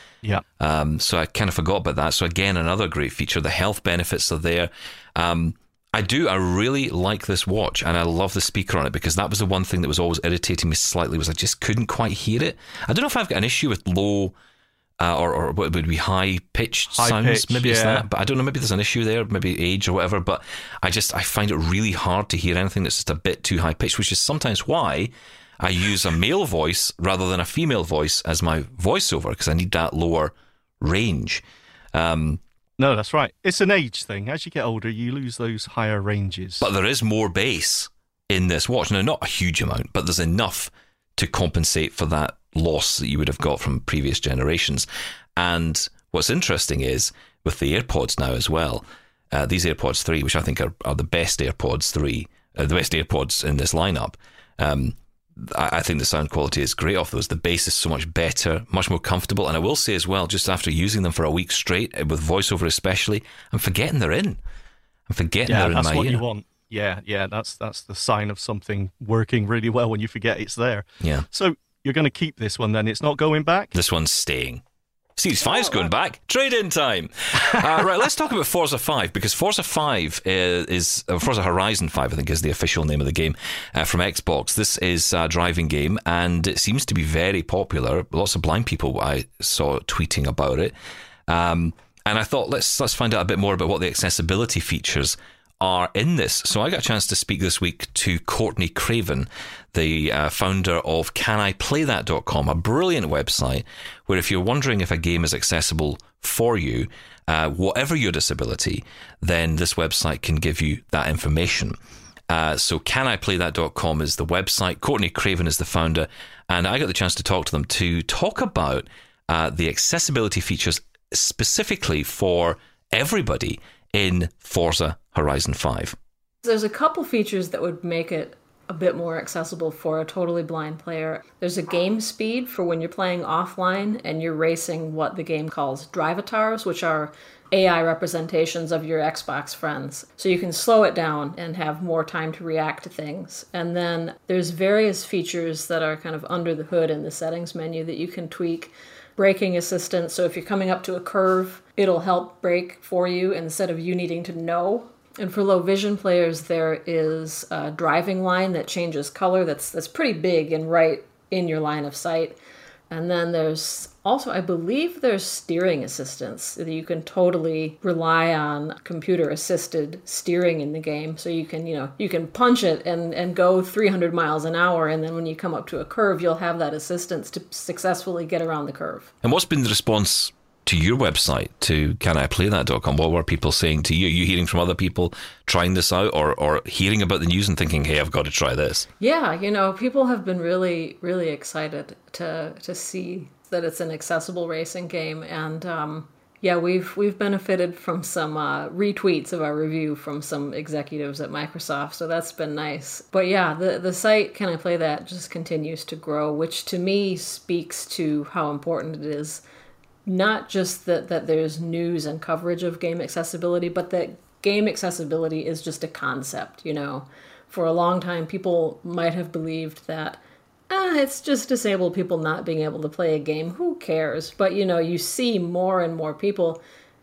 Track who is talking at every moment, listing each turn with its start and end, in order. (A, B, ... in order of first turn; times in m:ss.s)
0:00.6-0:14.4 A
0:15.0-0:31.4 A
0:16.9-0:18.1 B
0:31.9-0:32.4 A
0:32.8-0:36.7 B
0:36.6-1:04.4 A
1:05.1-1:06.2 A
1:05.5-1:13.8 B
1:11.0-1:11.3 A
1:13.7-1:14.6 A
1:15.2-1:30.7 A
1:31.3-1:51.8 A
1:52.3-2:06.0 A
2:06.4-2:42.4 C
2:42.9-2:59.1 C
2:59.2-3:08.9 A
3:09.0-3:29.4 C
3:30.1-3:46.6 C